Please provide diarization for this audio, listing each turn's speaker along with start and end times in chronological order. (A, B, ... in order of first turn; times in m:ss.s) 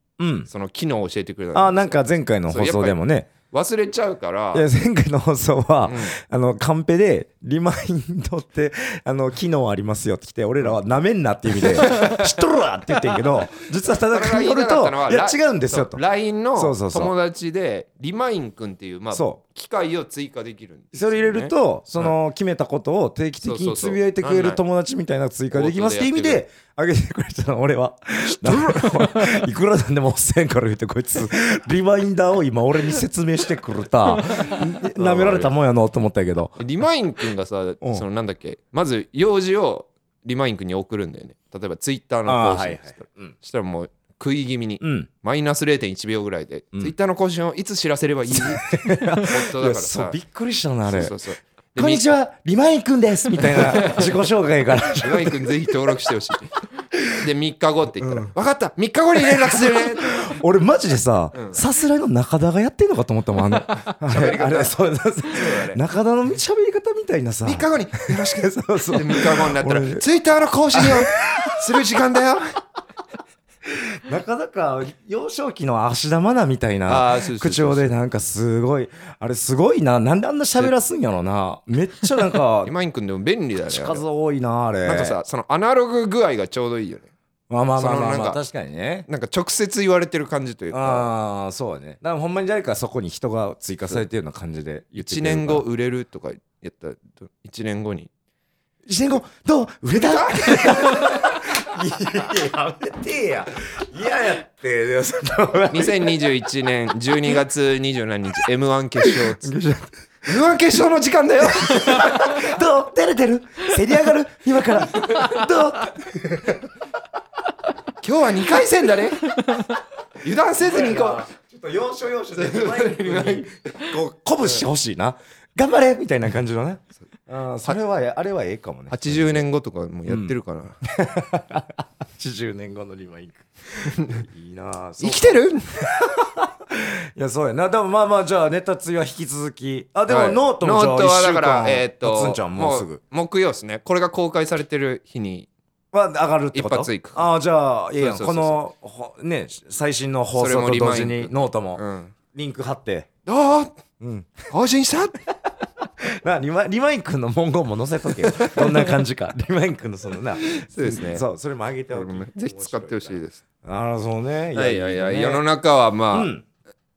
0:00.2-0:00.5 A
0:00.5-0:03.0 B
0:01.5-0:03.3 A
0:03.5-0:04.7 B
0:04.5-0:16.0 A
0:05.8-0:06.1 B
0:11.7-0:12.2 B
0:14.1-0:22.2 B
0:16.5-0:17.1 A
0:19.1-0:19.4 A
0:20.9-0:36.6 A
0:23.4-0:24.6 B
0:25.5-0:26.4 B
0:28.2-0:29.4 B
0:34.3-0:35.5 B
0:36.6-0:50.2 B
0:42.2-0:43.3 A
0:44.8-0:45.1 A
0:48.3-0:51.2 A
0:50.8-0:52.1 B
0:51.8-0:55.9 A
0:53.4-0:54.1 B
0:55.0-0:56.6 B
0:57.1-1:00.4 B
0:58.0-0:58.3 A
0:59.1-1:10.0 A
1:01.3-1:01.6 B
1:03.6-1:05.8 B
1:07.4-1:12.6 B
1:10.7-1:11.8 A
1:13.7-1:22.7 A
1:16.9-1:17.9 B
1:22.6-1:24.0 B
1:23.6-1:25.2 A
1:24.8-1:27.1 B
1:27.5-1:29.0 A
1:27.8-1:28.4 B
1:29.1-1:31.1 B
1:30.7-1:35.6 A
1:35.0-1:38.1 B
1:38.8-1:46.3 A
1:40.0-1:41.4 B
1:45.7-1:49.5 B
1:49.0-1:49.9 A
1:50.2-1:52.5 B
1:51.4-1:56.7 A
1:54.9-1:55.4 B
1:58.0-1:59.6 B
2:00.2-2:01.3 B
2:00.6-2:09.4 A
2:02.3-2:03.9 B
2:08.9-2:10.8 B
2:10.1-2:10.3 A
2:10.8-2:23.0 A
2:13.9-2:14.2 B
2:15.0-2:16.1 B
2:20.1-2:25.5 B
2:25.9-2:33.1 A
2:26.5-2:27.3 B
2:28.0-2:28.6 B
2:30.4-2:32.1 B
2:33.2-2:33.8 B
2:34.0-2:34.5 A
2:34.5-2:35.2 B
2:36.0-2:45.4 A
2:38.3-2:39.0 B
2:40.4-2:41.2 B
2:41.9-2:43.4 B
2:44.5-2:46.3 B
2:46.1-2:46.4 A